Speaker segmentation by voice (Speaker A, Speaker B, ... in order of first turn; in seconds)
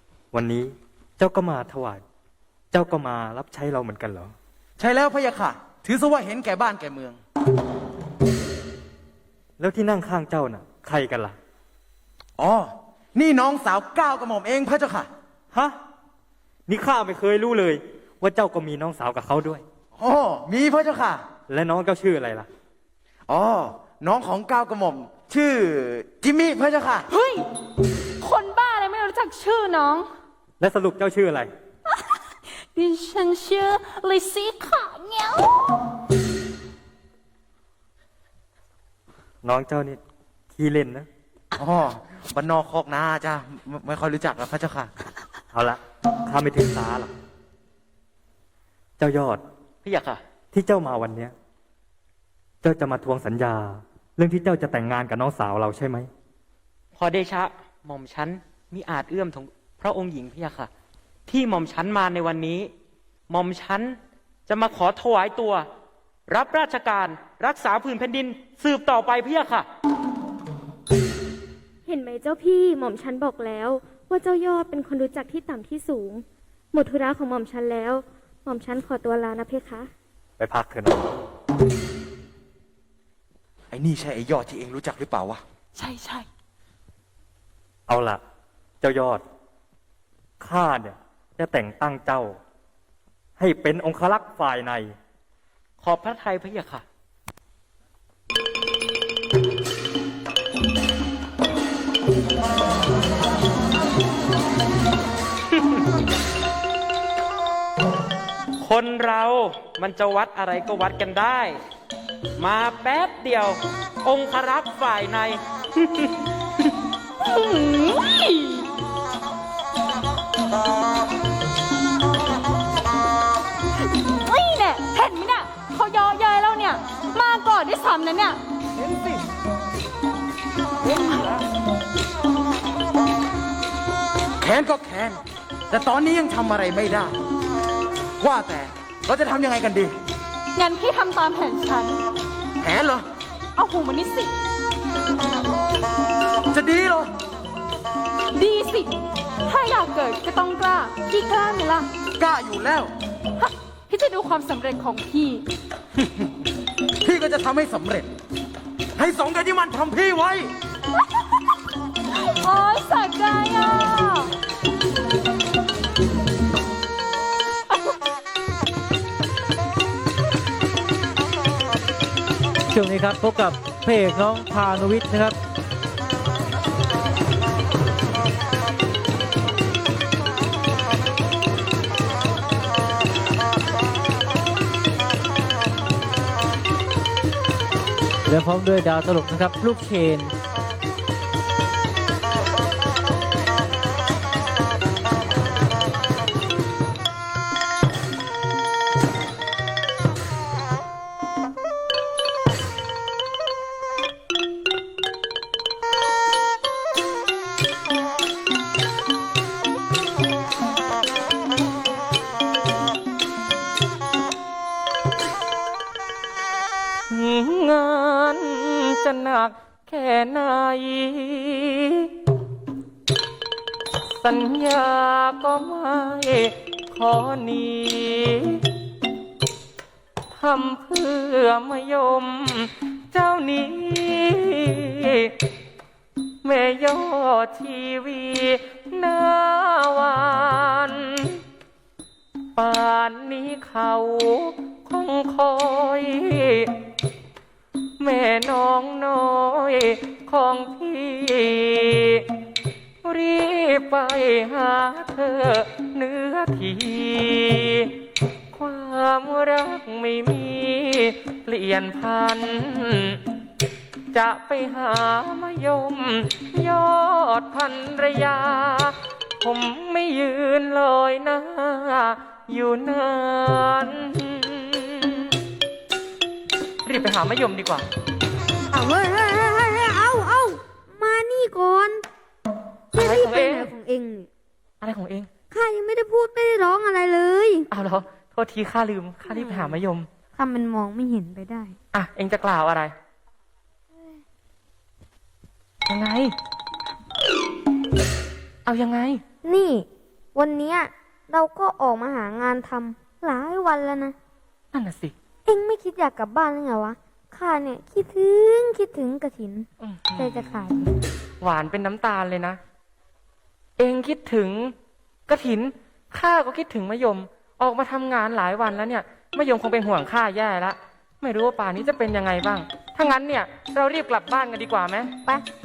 Speaker A: 0.3-2.0, 2.7-4.3, 9.6-11.3, 16.7-19.6, 21.5-22.5, 30.6-31.5, 39.4-40.0, 40.5-41.1, 45.5-47.1, 49.0-49.4, 50.5-51.3, 52.6-56.1, 80.4-81.1, 87.9-88.2, 88.8-89.2, 90.4-92.4, 93.4-94.9
Speaker B: 4.8-7.2, 12.4-15.1, 20.0-21.2, 23.3-27.0, 41.6-44.9, 83.7-85.4, 134.4-137.1, 138.2-139.9, 142.6-143.1, 146.5-147.1, 152.2-152.9, 157.0-158.1, 158.9-160.5
Speaker C: 27.1-27.4, 28.2-30.1, 32.7-35.6, 85.8-86.3, 117.2-118.7, 124.0-128.4, 140.5-142.0, 143.6-144.3, 148.3-148.9, 149.4-151.9, 153.4-155.4, 162.1-164.3
Speaker D: 49.8-50.2, 56.9-60.7, 61.3-62.7, 63.3-63.9, 64.5-65.6, 66.3-69.7, 95.8-96.8, 108.6-111.6, 112.4-116.1
Speaker E: 71.8-79.9
Speaker F: 172.7-175.3, 188.2-190.3
Speaker G: 217.1-222.1, 224.2-228.6, 230.3-235.3, 236.4-241.4, 242.6-246.7, 248.0-252.2, 253.0-258.0, 258.5-263.2, 264.1-275.1, 276.8-277.9, 282.9-283.7, 284.8-285.3, 287.7-290.1, 291.9-292.9, 295.9-296.3, 298.7-299.2, 304.7-305.1, 309.8-310.9, 311.4-312.6, 313.8-314.7, 315.3-325.1
Speaker H: 278.7-282.0, 282.9-284.3, 285.5-287.7, 289.3-289.7, 290.4-291.7, 299.4-304.1, 305.5-310.8